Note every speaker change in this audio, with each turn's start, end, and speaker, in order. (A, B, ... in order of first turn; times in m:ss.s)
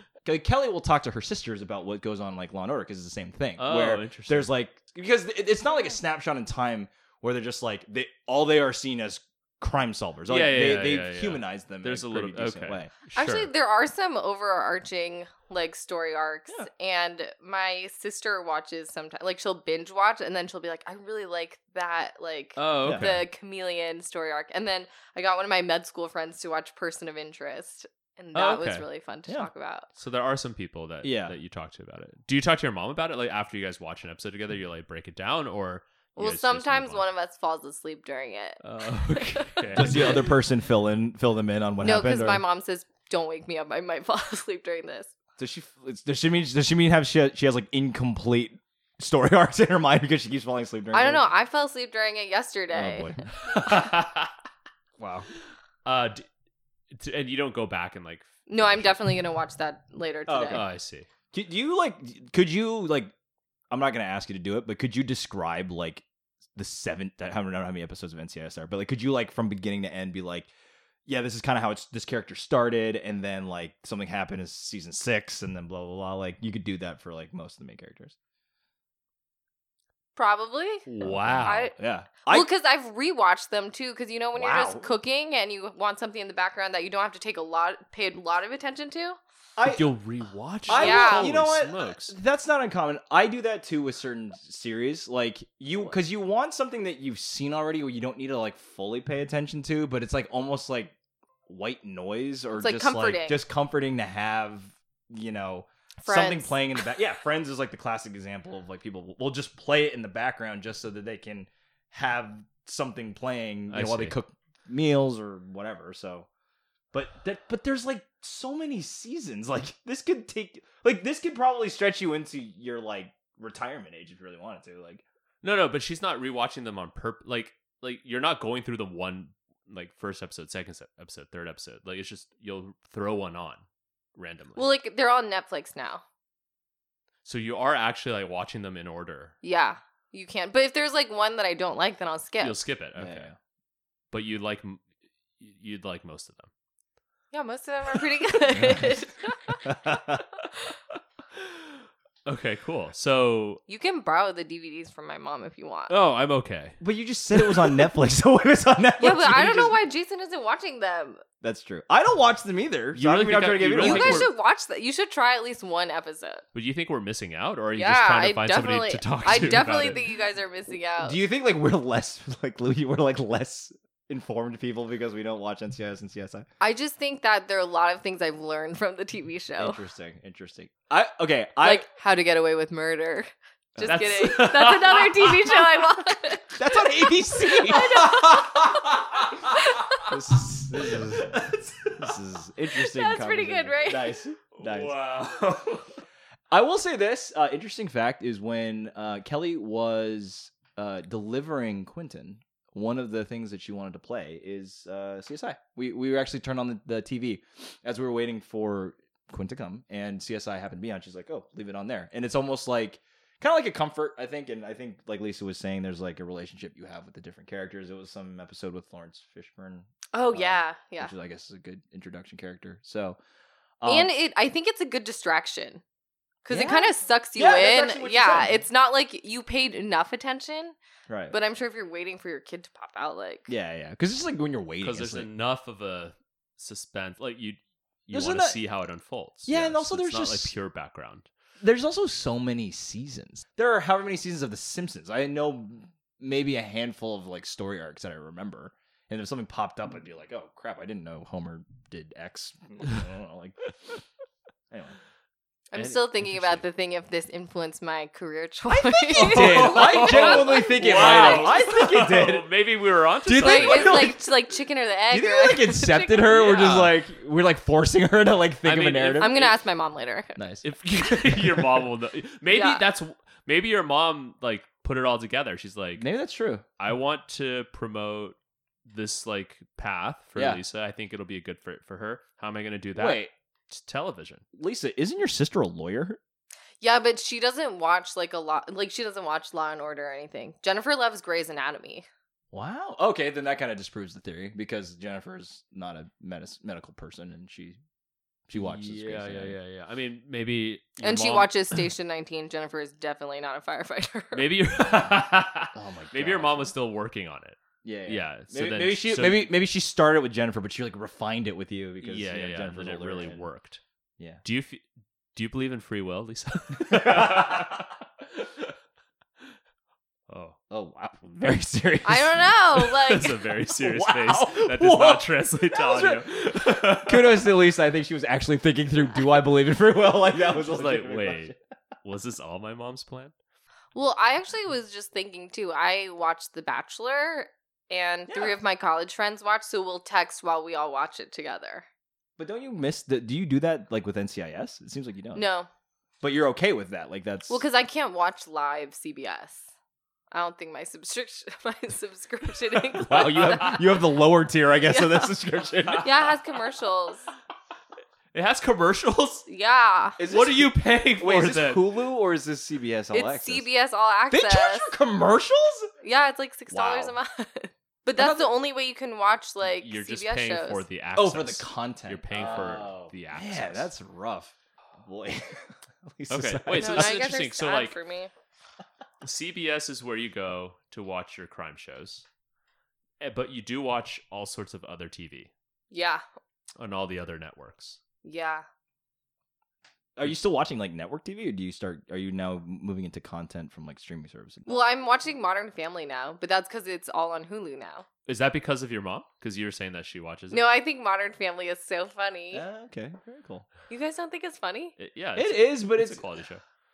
0:00.2-0:12.9 A
0:03.6-0:04.5 B
0:10.3-0:13.5 B
0:13.1-0:29.9 C
0:22.6-0:23.2 B
0:22.8-0:23.1 A
0:28.3-0:28.8 B
0:30.0-0:37.0 B
0:31.0-0:31.3 A
0:36.2-0:40.2 C
0:38.6-0:40.3 B
0:39.7-0:42.4 A
0:41.8-0:45.1 C
0:45.4-0:51.3 A
0:50.9-0:53.1 C
0:52.7-0:53.2 A
0:53.5-0:54.3 B
0:55.0-0:55.3 A
0:55.8-0:56.2 B
0:56.9-0:59.0 B
0:58.5-1:00.6 C
1:00.3-1:00.7 A
1:00.5-1:01.1 B
1:01.3-1:03.1 A
1:03.7-1:06.0 A
1:06.6-1:10.5 A
1:11.0-1:18.1 A
1:20.2-1:20.9 C
1:20.8-1:21.7 B
1:21.0-1:22.5 A
1:21.4-1:21.7 C
1:22.3-1:29.2 C
1:24.3-1:24.9 A
1:29.6-1:29.9 A
1:29.6-1:32.2 B
1:30.7-1:40.9 A
1:30.7-1:31.3 C
1:41.5-1:56.3 A
1:42.5-1:43.4 C
1:46.0-1:46.6 C
1:53.7-1:54.2 B
1:56.9-2:05.0 A
2:05.4-2:13.6 B
2:14.2-2:14.6 B
2:14.6-2:16.0 C
2:17.2-2:19.3 B
2:19.4-2:22.6 C
2:22.4-2:23.3 B
2:23.0-2:23.4 A
2:24.1-2:24.8 B
2:25.4-2:26.5 B
2:27.3-2:29.6 C
2:28.5-2:29.0 A
2:29.6-2:30.2 A
2:31.4-2:33.6 B
2:33.7-2:35.9 C
2:35.9-2:36.8 B
2:36.8-2:39.8 A
2:37.3-2:37.8 B
2:39.0-2:41.2 C
2:41.4-2:44.3 A
2:42.9-2:44.3 B
2:43.8-2:46.4 C
2:46.5-2:50.0 B
2:47.8-2:51.2 C
2:51.0-2:56.4 A
2:56.6-2:59.8 C
2:59.6-3:01.9 A
3:01.6-3:09.0 C
3:03.7-3:04.2 A
3:03.8-3:05.9 B
3:06.6-3:08.4 A
3:08.0-3:08.3 B
3:09.5-3:10.0 C
3:10.0-3:11.4 A
3:10.9-3:12.1 B
3:11.9-3:15.0 A
3:12.8-3:14.2 C
3:14.5-3:15.8 B
3:16.5-3:43.2 A
3:40.1-3:41.1 C
3:43.8-3:44.1 A
3:43.8-3:45.8 C
3:46.4-3:50.8 C
3:46.5-3:48.6 A
3:51.1-3:51.4 A
3:51.3-3:53.5 C
3:53.5-3:55.3 A
3:54.8-4:01.3 B
3:58.1-3:58.6 A
3:59.5-4:00.5 A
4:01.6-4:14.0 A
4:14.7-4:15.0 A
4:15.7-4:21.6 C
4:15.8-4:16.6 B
4:18.7-4:22.5 A
4:19.1-4:24.1 B
4:23.2-4:24.2 A
4:23.4-4:26.4 C
4:25.1-4:29.4 A
4:26.2-4:26.9 B
4:28.6-4:29.5 B
4:29.2-4:30.4 C
4:30.4-4:30.6 A
4:30.6-4:36.1 B
4:31.2-4:31.7 A
4:32.5-4:32.8 C
4:36.0-4:36.6 A
4:36.8-4:44.4 B
4:40.4-4:40.6 A
4:43.0-4:43.3 A
4:44.5-4:46.2 A
4:46.8-4:52.1 C
4:52.5-4:57.8 A
4:58.5-4:59.6 A
4:58.6-5:01.9 B
5:01.0-5:04.5 C
5:04.3-5:09.5 B
5:05.7-5:06.7 A
5:07.8-5:13.4 A
5:12.0-5:13.8 B
5:14.4-5:18.5 B
5:16.8-5:17.8 A
5:20.3-5:20.6 B
5:20.7-5:22.8 A
5:22.0-5:23.5 C
5:22.8-5:27.5 B
5:23.7-5:31.6 A
5:30.4-5:33.3 B
5:33.9-5:41.8 C
5:38.3-5:38.5 A
5:42.4-5:45.4 A
5:45.3-5:45.7 C
5:46.2-5:47.6 A
5:47.5-5:49.6 C
5:50.3-5:54.0 C
5:53.0-5:56.1 A
5:54.9-5:55.3 C
5:56.0-5:57.2 C
5:58.3-5:59.4 B
5:59.5-6:00.2 C
6:00.2-6:03.6 A
6:00.2-6:02.0 B
6:03.1-6:04.9 C
6:04.3-6:05.9 A
6:06.0-6:10.8 C
6:06.7-6:07.1 A
6:08.2-6:08.5 A
6:09.6-6:13.9 B
6:11.1-6:17.2 A
6:16.3-6:17.9 B
6:16.7-6:18.3 C
6:19.2-6:22.2 B
6:23.2-6:25.5 B
6:25.9-6:26.2 C
6:26.8-6:28.0 B
6:28.2-6:28.6 C
6:30.2-6:34.8 A
6:34.7-6:38.0 C
6:38.2-6:40.6 B
6:40.5-6:42.6 C
6:42.5-6:43.7 A
6:43.9-6:44.9 C
6:45.0-6:46.6 B
6:45.4-6:46.4 A